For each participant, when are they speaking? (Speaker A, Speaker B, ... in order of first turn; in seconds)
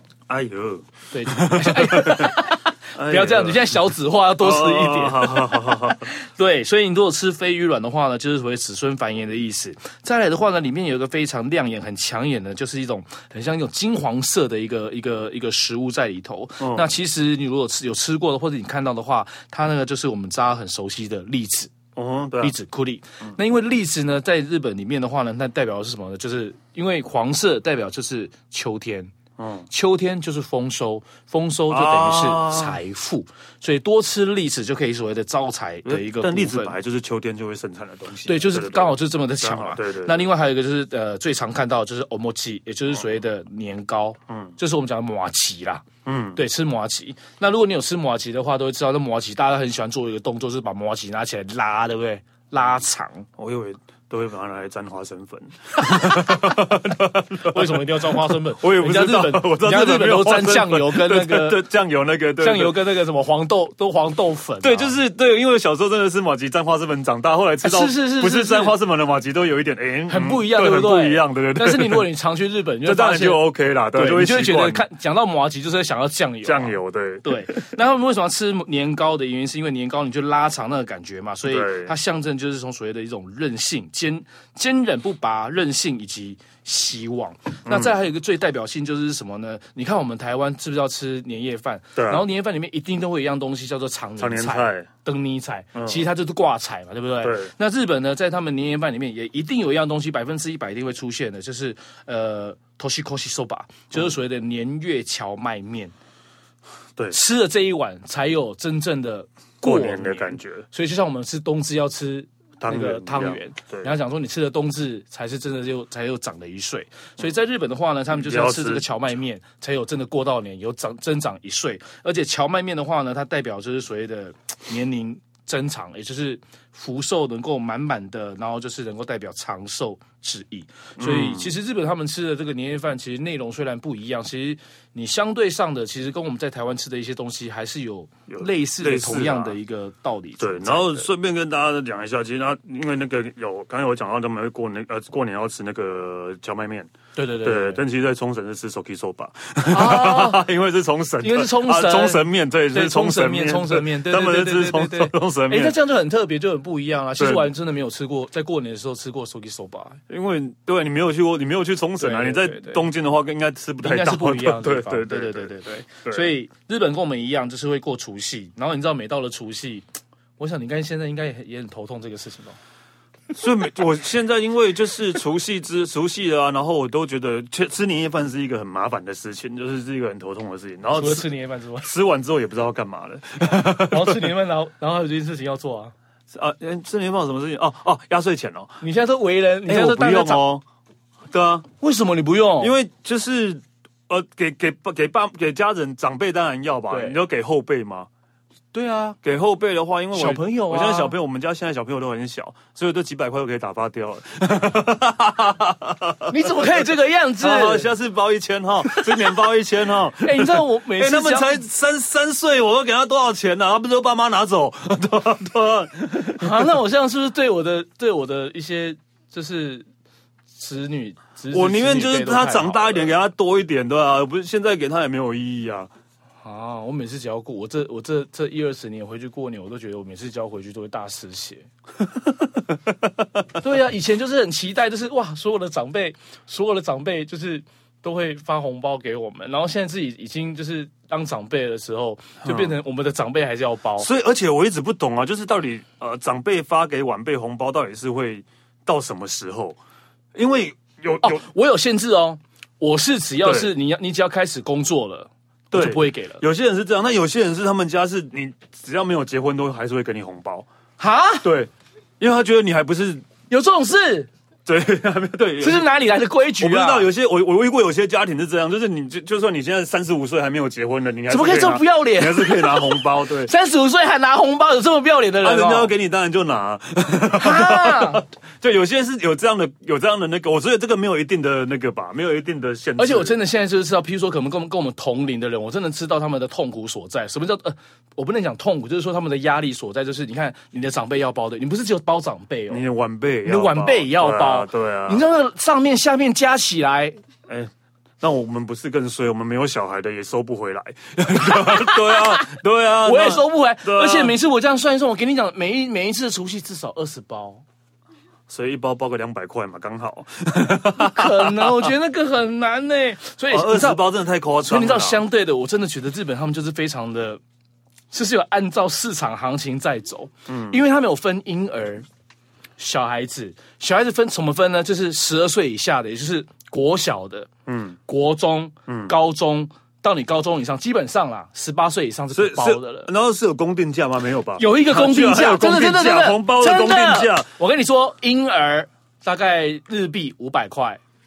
Speaker A: 0.3-2.4, 3.0-3.8, 4.4-6.1, 16.6-16.9, 22.0-22.6, 29.4-29.7, 31.7-32.8, 35.9-40.3, 44.3-44.5, 46.0-46.4, 53.4-62.8, 64.6-72.1, 72.8-74.8, 76.4-77.6, 81.5-81.9, 87.7-88.0, 92.0-92.2, 94.2-94.9, 95.8-96.1, 97.2-97.5, 109.6-110.7, 112.6-113.9, 118.1-118.9, 131.0-131.5, 138.3-139.6, 140.4-146.9, 147.4-155.8, 157.2-157.5, 160.1-165.5, 173.3-181.3, 181.8-184.3, 186.3-188.8, 189.7-190.6, 191.3-191.7, 192.6-198.1, 199.2-206.7, 207.4-216.7, 221.5-225.9, 242.4-242.8, 244.0-249.8, 250.3-251.4, 253.4-253.7, 255.7-260.7, 261.4-263.2, 264.7-265.9, 266.6-273.5, 275.4-283.4, 292.7-295.2, 297.5-304.4, 308.5-311.9, 313.5-315.2, 320.5-320.8, 327.7-328.0, 328.9-329.1, 332.3-337.5
Speaker B: 1.1-21.7, 22.4-29.1, 29.7-36.8, 38.3-53.3, 55.9-56.7, 57.4-61.6, 62.4-65.0, 67.6-68.8, 70.1-73.4, 73.9-105.9, 107.1-141.1, 147.2-147.8, 149.7-150.4, 151.2-160.0, 162.0-162.9, 163.8-169.9, 170.4-172.6, 180.9-181.9, 183.4-185.9, 188.8-190.5, 191.8-192.7, 196.9-197.2, 198.7-199.2, 200.1-201.2, 206.3-207.9, 208.8-209.4, 210.2-211.6, 216.2-219.9, 220.5-223.2, 226.4-231.7, 233.6-244.1, 251.2-256.4, 261.0-261.5, 263.5-264.3, 265.6-267.1, 271.3-275.9, 277.3-278.2, 283.0-292.9, 293.4-297.2, 301.4-307.6, 310.9-314.1, 314.6-317.4, 318.1-322.1, 322.8-327.5, 328.1-333.1, 334.6-341.0